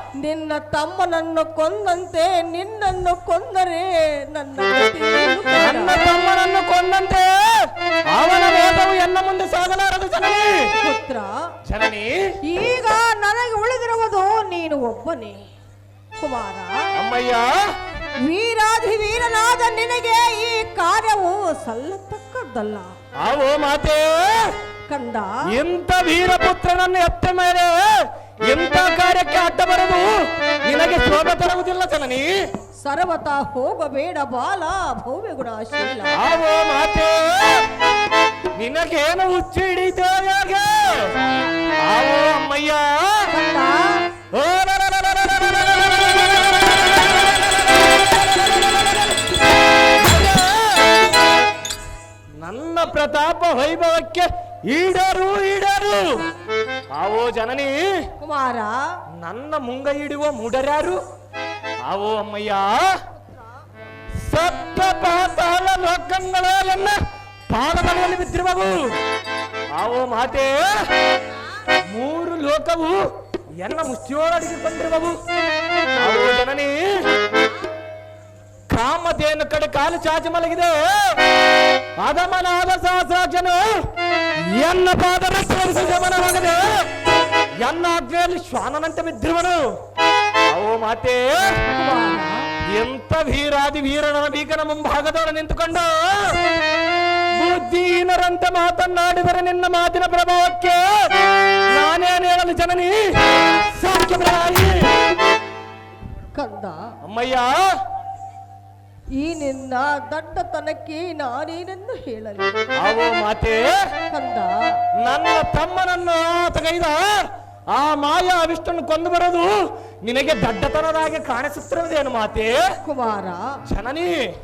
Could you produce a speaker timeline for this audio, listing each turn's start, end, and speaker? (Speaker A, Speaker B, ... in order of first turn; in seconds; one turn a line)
Speaker A: 0.2-6.2
Speaker B: 5.5-10.5
Speaker A: 10.8-11.3
Speaker B: 11.7-12.2
Speaker A: 12.5-15.4
Speaker A: 16.2-16.8
Speaker B: 17.0-17.5
Speaker A: 18.2-22.9
Speaker B: 23.2-24.5
Speaker A: 24.9-25.3
Speaker B: 25.5-32.3
Speaker A: 32.8-36.1
Speaker B: 36.1-37.7
Speaker B: 38.6-41.1
Speaker B: 41.9-43.3
Speaker A: 43.3-44.0
Speaker B: 44.3-50.9
Speaker B: 52.4-56.1
Speaker B: 57.0-57.8
Speaker A: 58.2-58.9
Speaker B: 59.2-61.0
Speaker B: 61.9-62.9
Speaker A: 63.2-63.5
Speaker B: 64.2-68.9
Speaker B: 69.8-70.9
Speaker B: 71.9-73.0
Speaker B: 73.6-75.2
Speaker B: 76.0-76.8
Speaker B: 78.7-81.2
Speaker B: 82.0-83.8
Speaker B: 84.5-86.8
Speaker B: 87.6-89.6
Speaker B: 90.5-91.4
Speaker A: 91.7-92.4
Speaker B: 92.8-96.4
Speaker B: 97.4-100.9
Speaker B: 101.7-104.9
Speaker A: 106.3-106.8
Speaker B: 107.0-107.5
Speaker A: 109.2-112.6
Speaker B: 112.8-113.7
Speaker A: 114.1-114.8
Speaker B: 115.0-122.6
Speaker A: 122.9-123.4
Speaker B: 123.7-124.2